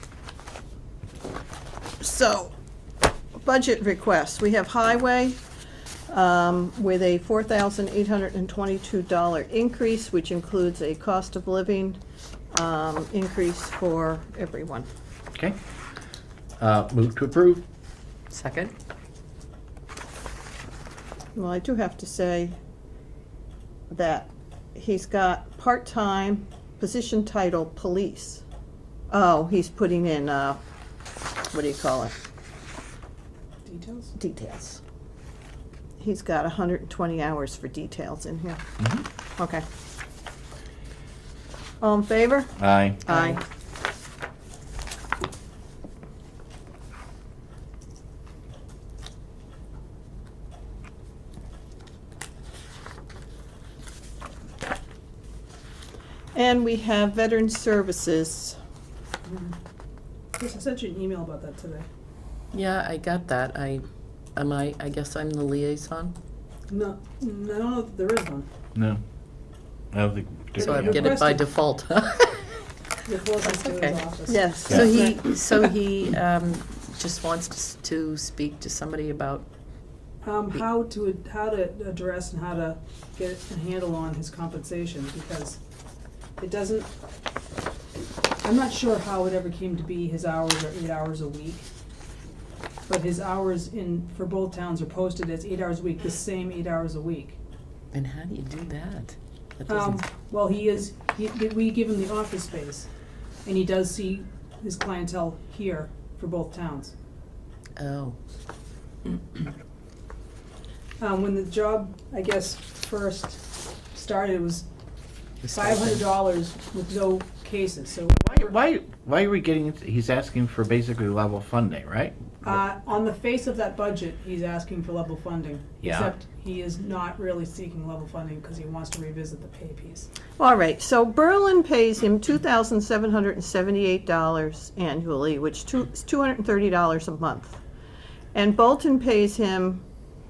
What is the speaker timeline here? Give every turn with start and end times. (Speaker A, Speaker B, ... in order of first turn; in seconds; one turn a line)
Speaker A: 2.0-2.5
Speaker A: 3.4-5.4
Speaker A: 6.1-12.0
Speaker A: 12.5-14.9
Speaker B: 16.6-17.6
Speaker C: 18.3-18.7
Speaker A: 21.4-22.6
Speaker A: 23.9-28.4
Speaker A: 29.1-30.6
Speaker A: 31.5-32.2
Speaker D: 33.6-34.1
Speaker A: 34.2-34.8
Speaker A: 36.0-38.6
Speaker B: 38.8-39.0
Speaker A: 39.4-39.6
Speaker A: 41.8-43.4
Speaker B: 42.6-43.2
Speaker A: 56.3-58.6
Speaker D: 59.3-59.6
Speaker D: 60.4-61.9
Speaker C: 62.5-63.9
Speaker C: 64.4-66.2
Speaker D: 66.7-68.5
Speaker B: 68.8-69.0
Speaker B: 69.9-71.2
Speaker D: 70.6-71.5
Speaker C: 70.6-72.6
Speaker D: 73.1-74.5
Speaker C: 73.4-74.0
Speaker A: 74.3-75.3
Speaker B: 74.7-74.9
Speaker C: 74.7-79.5
Speaker D: 80.2-85.6
Speaker D: 86.4-86.9
Speaker D: 88.4-91.7
Speaker D: 92.9-97.4
Speaker C: 97.9-100.0
Speaker D: 99.7-102.9
Speaker D: 103.5-106.9
Speaker C: 107.8-108.2
Speaker D: 111.0-114.7
Speaker C: 115.4-116.0
Speaker D: 115.5-118.5
Speaker B: 118.2-122.3
Speaker D: 122.4-130.1
Speaker B: 125.8-126.1
Speaker A: 130.4-137.6
Speaker A: 138.3-139.8